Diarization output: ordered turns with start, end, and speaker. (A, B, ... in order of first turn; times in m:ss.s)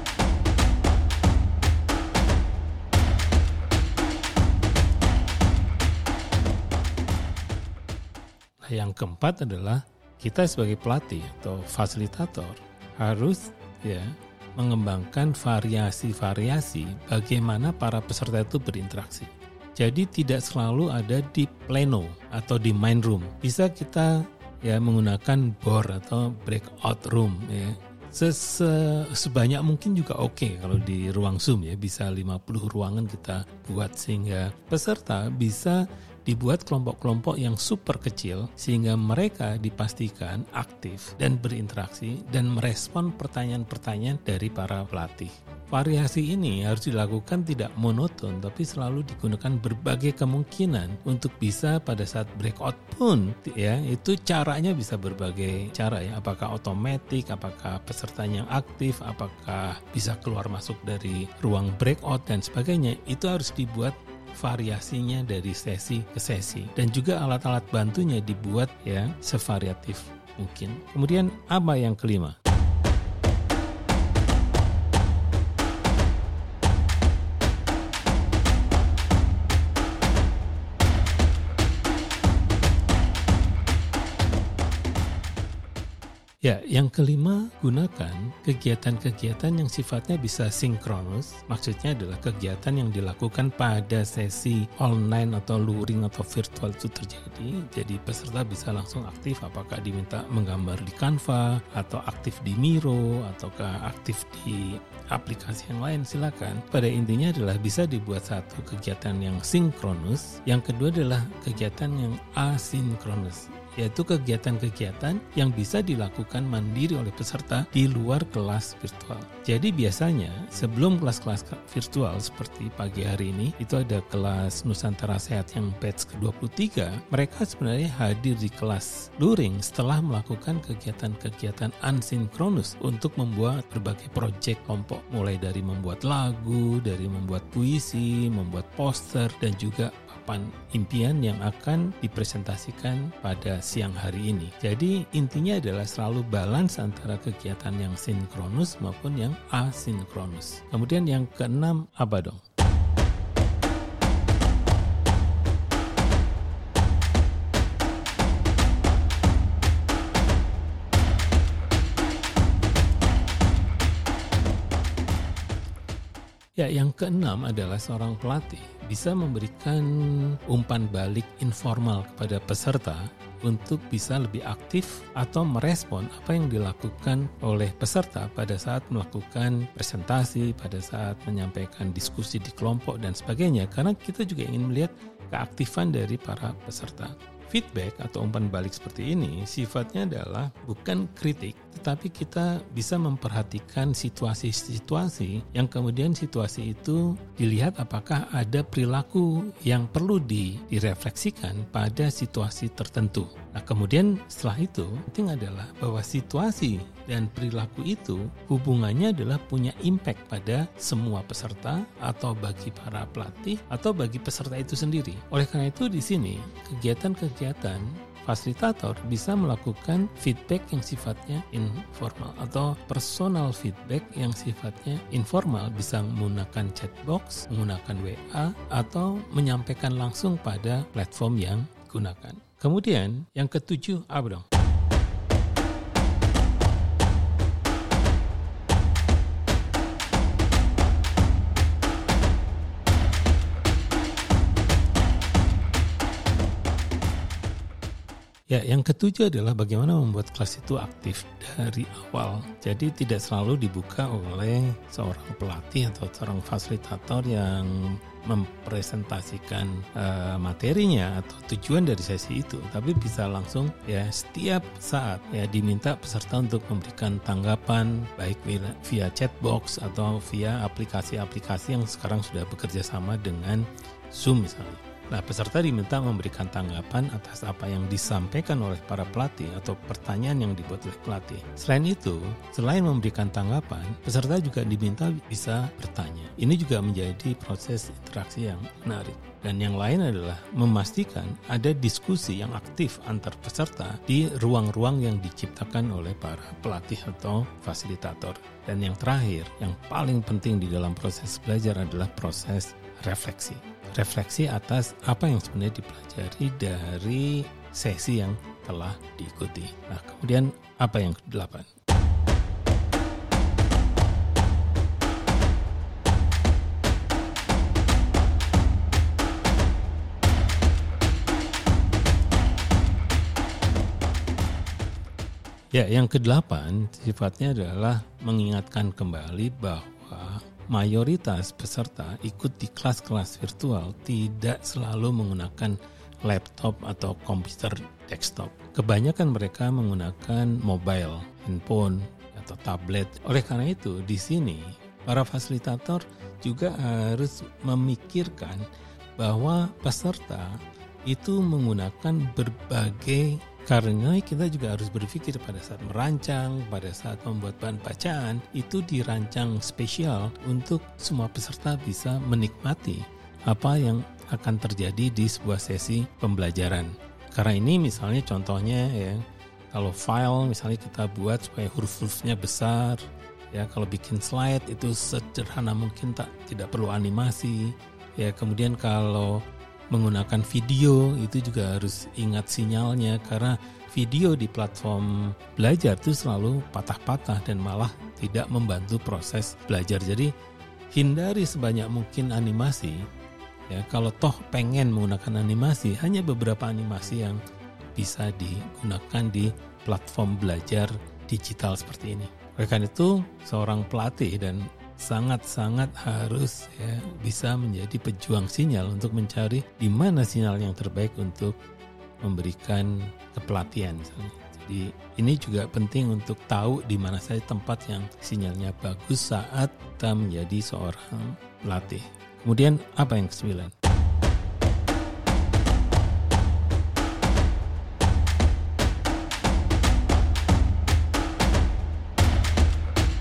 0:08.6-1:12.4 A
1:26.4-2:32.4 A
2:46.6-3:54.4 A
4:08.5-5:11.7 A
5:25.7-5:48.7 A
5:49.2-6:30.3 A
6:30.9-6:33.0 A
6:33.7-6:37.4 A
6:37.9-6:51.5 A
6:52.2-7:03.7 A